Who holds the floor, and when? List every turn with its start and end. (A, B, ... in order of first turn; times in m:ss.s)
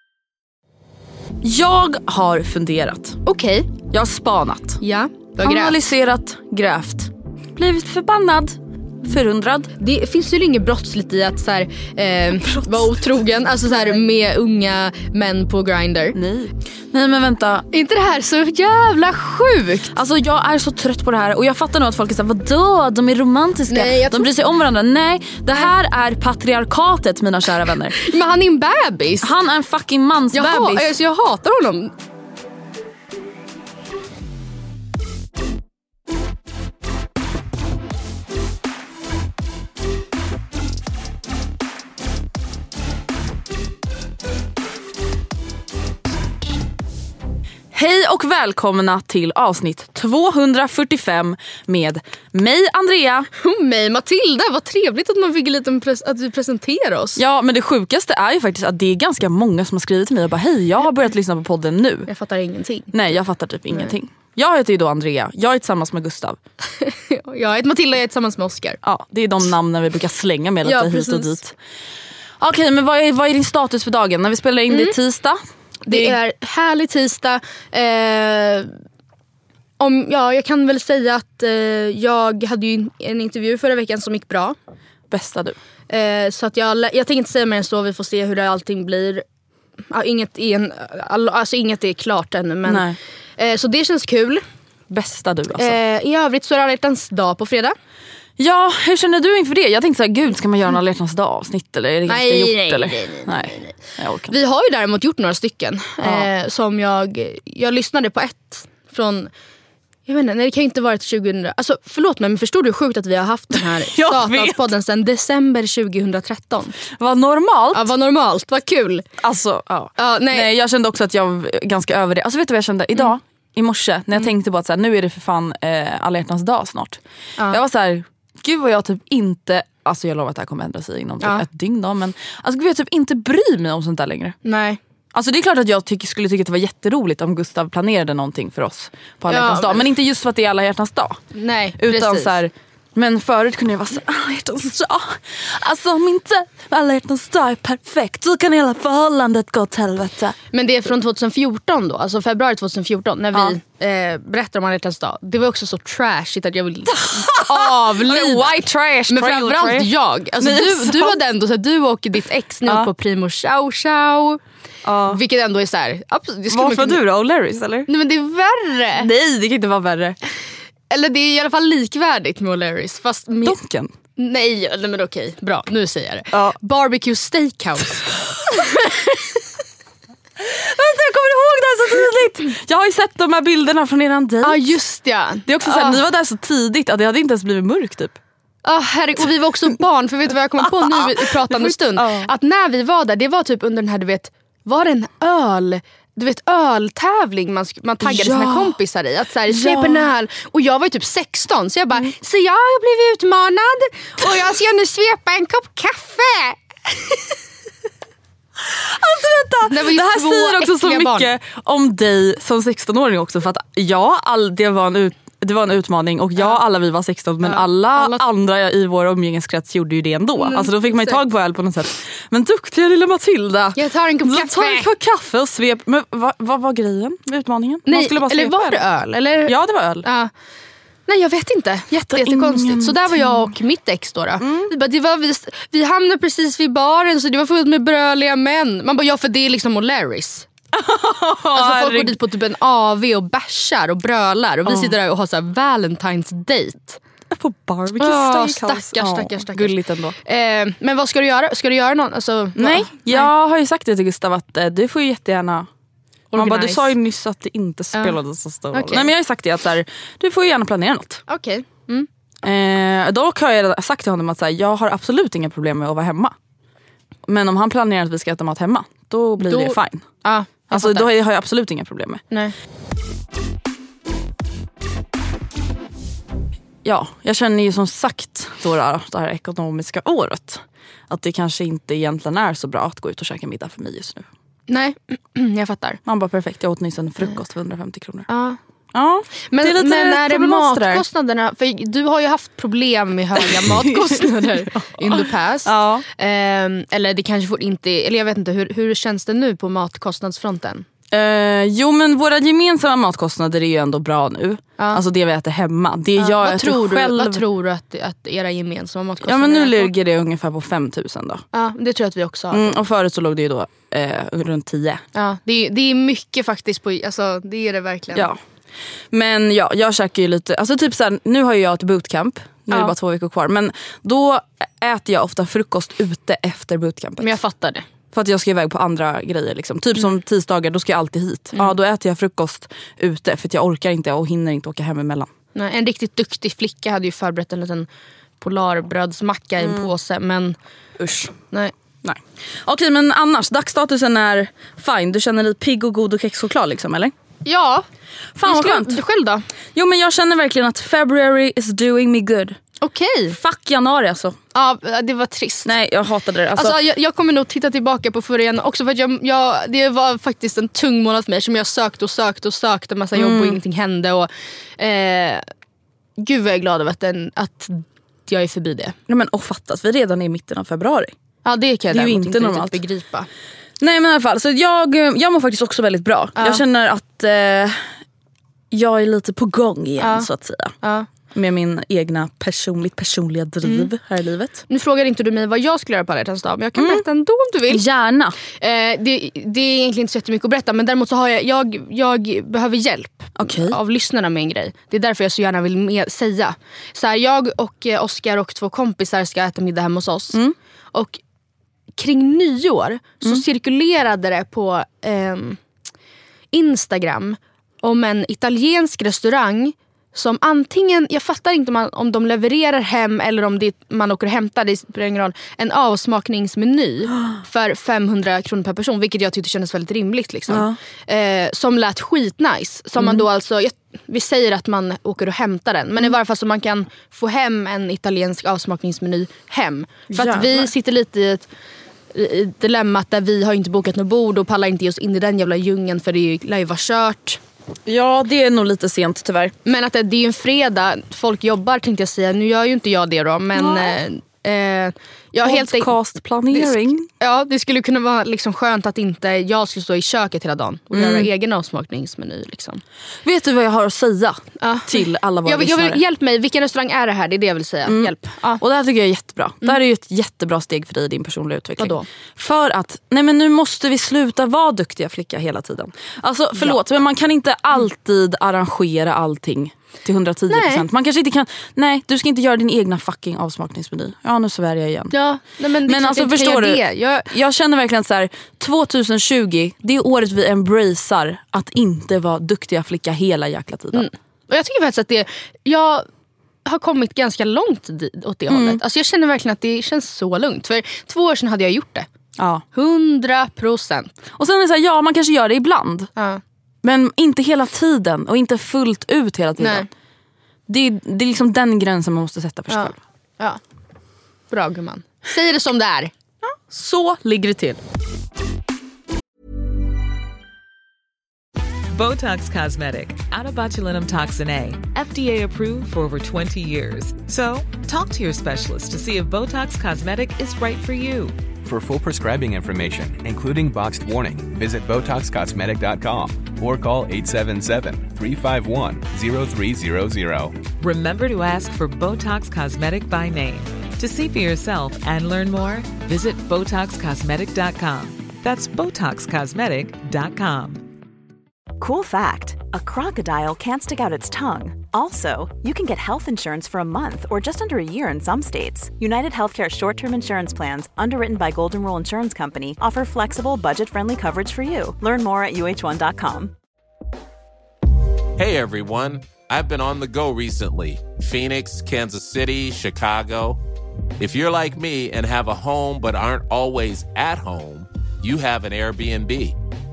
0:01.4-0:03.2 A
0:03.2-0:03.7 B
0:03.8-0:04.8 A
0:04.8-0:05.8 B
0:05.4-0:09.7 A
0:09.8-0:16.2 B
0:12.3-0:13.0 A
0:16.1-0:17.7 A
0:17.7-0:19.9 B
0:19.9-0:28.0 A
0:23.7-0:24.3 B
0:28.0-0:29.3 B
0:29.2-0:30.9 A
0:30.3-0:31.9 B
0:47.7-0:53.3 A
0:53.4-0:57.2 B
0:57.2-1:02.1 A
1:02.1-1:02.9 B
1:02.9-1:06.4 A
1:06.8-1:08.8 B
1:08.8-1:11.5 A
1:10.6-1:11.4 B
1:12.4-1:16.2 A
1:14.7-1:14.9 B
1:15.8-1:18.7 B
1:19.8-1:24.6 B
1:25.1-1:25.6 A
1:25.9-1:29.2 B
1:29.9-1:32.8 B
1:32.6-1:33.0 A
1:33.4-1:34.4 B
1:34.9-1:35.8 A
1:35.6-1:37.7 B
1:38.4-1:44.3 A
1:42.1-1:43.7 B
1:44.3-1:49.3 B
1:46.0-1:46.3 A
1:50.1-1:56.7 B
1:53.6-1:54.7 A
1:57.0-1:57.9 A
1:57.7-1:59.0 B
1:59.2-2:14.4 A
2:00.0-2:00.5 B
2:14.4-2:14.8 B
2:15.1-2:21.2 A
2:19.3-2:19.8 B
2:21.3-2:22.3 B
2:21.8-2:30.4 A
2:30.5-2:44.4 B
2:36.9-2:41.2 A
2:44.8-2:45.2 A
2:45.1-2:47.0 B
2:46.5-2:47.9 A
2:47.9-2:49.1 B
2:49.0-2:50.2 A
2:50.9-2:53.6 B
2:53.4-2:53.9 A
2:54.2-2:59.4 B
2:56.3-2:56.6 A
3:00.4-3:04.8 A
3:04.4-3:06.0 B
3:05.4-3:08.2 A
3:08.6-3:27.2 B
3:10.6-3:12.3 A
3:18.0-3:18.8 A
3:19.5-3:20.1 A
3:28.6-3:48.8 A
3:29.7-3:31.3 B
3:37.4-3:38.2 B
3:40.4-3:41.2 B
3:43.7-3:44.9 B
3:47.9-3:50.3 B
3:49.4-3:50.0 A
3:51.1-4:00.5 B
3:51.9-3:53.5 A
3:54.4-3:54.7 A
4:00.7-4:02.2 A
4:01.4-4:07.0 B
4:04.6-4:05.0 A
4:07.3-4:10.2 A
4:08.0-4:13.3 B
4:12.6-4:15.7 A
4:16.3-4:16.9 B
4:16.3-4:21.2 A
4:17.9-4:18.2 B
4:18.7-4:19.1 B
4:21.3-4:22.1 B
4:22.4-4:26.3 A
4:27.2-4:30.1 A
4:29.4-4:31.1 B
4:30.7-4:32.2 A
4:36.8-4:44.3 A
4:44.7-4:46.0 B
4:46.0-4:48.3 A
4:48.3-4:48.6 B
4:48.9-4:51.0 A
4:49.5-5:00.8 B
4:53.4-4:56.0 A
5:01.1-5:07.4 A
5:06.2-5:09.9 B
5:09.2-5:11.4 A
5:11.5-5:12.8 B
5:12.5-5:15.0 A
5:15.1-5:18.3 B
5:18.1-5:18.4 A
5:19.1-5:27.4 A
5:27.2-5:27.8 B
5:28.1-5:35.3 A
5:35.5-5:37.9 B
5:38.4-5:40.6 B
5:39.6-5:39.9 A
5:41.0-5:41.3 A
5:42.0-5:47.1 A
5:47.4-5:47.8 B
5:48.3-5:49.0 A
5:48.4-5:49.4 B
5:49.7-5:52.6 A
5:52.8-5:53.4 B
5:53.3-5:54.4 A
5:54.5-5:55.7 B
5:55.6-5:56.8 A
5:56.5-6:05.4 B
6:03.1-6:03.6 A
6:06.2-6:09.0 B
6:09.1-6:11.1 A
6:11.4-6:13.3 B
6:11.9-6:12.8 A
6:13.8-6:18.0 A
6:16.4-6:16.6 B
6:18.7-6:20.7 A
6:20.0-6:20.3 B
6:20.8-6:21.1 B
6:21.3-6:24.6 A
6:23.6-6:23.9 B
6:24.7-6:27.8 B
6:26.8-6:27.0 A
6:27.7-6:28.4 A
6:28.6-6:40.4 B
6:33.4-6:33.8 A
6:40.9-6:41.2 B
6:42.0-6:45.6 B
6:46.5-7:11.5 B
7:00.5-7:00.8 A
7:03.0-7:03.2 A
7:10.1-7:10.7 A
7:12.1-7:17.4 B
7:17.8-7:19.5 A
7:19.6-7:25.9 B
7:23.5-7:24.0 A
7:25.4-7:27.1 A
7:26.5-7:32.8 B
7:30.9-7:31.3 A
7:33.2-7:36.0 A
7:34.6-7:38.6 B
7:37.8-7:55.2 A
7:41.8-7:42.1 B
7:50.5-7:50.8 B
7:55.1-7:57.3 B
7:55.8-8:04.1 A
8:03.9-8:06.1 B
8:06.6-8:12.1 B
8:08.5-8:08.8 A
8:12.4-8:12.6 A
8:12.7-8:14.1 B
8:14.3-8:16.1 A
8:16.2-8:16.4 B
8:16.8-8:19.9 A
8:19.6-8:19.9 B
8:20.7-8:23.0 A
8:22.7-8:23.6 B
8:24.5-8:26.5 B
8:26.7-8:27.8 A
8:31.9-8:41.4 C
8:41.6-8:50.5 D
8:50.8-9:00.8 C
9:01.8-9:16.5 E
9:18.4-9:23.6 F
9:24.2-9:29.6 F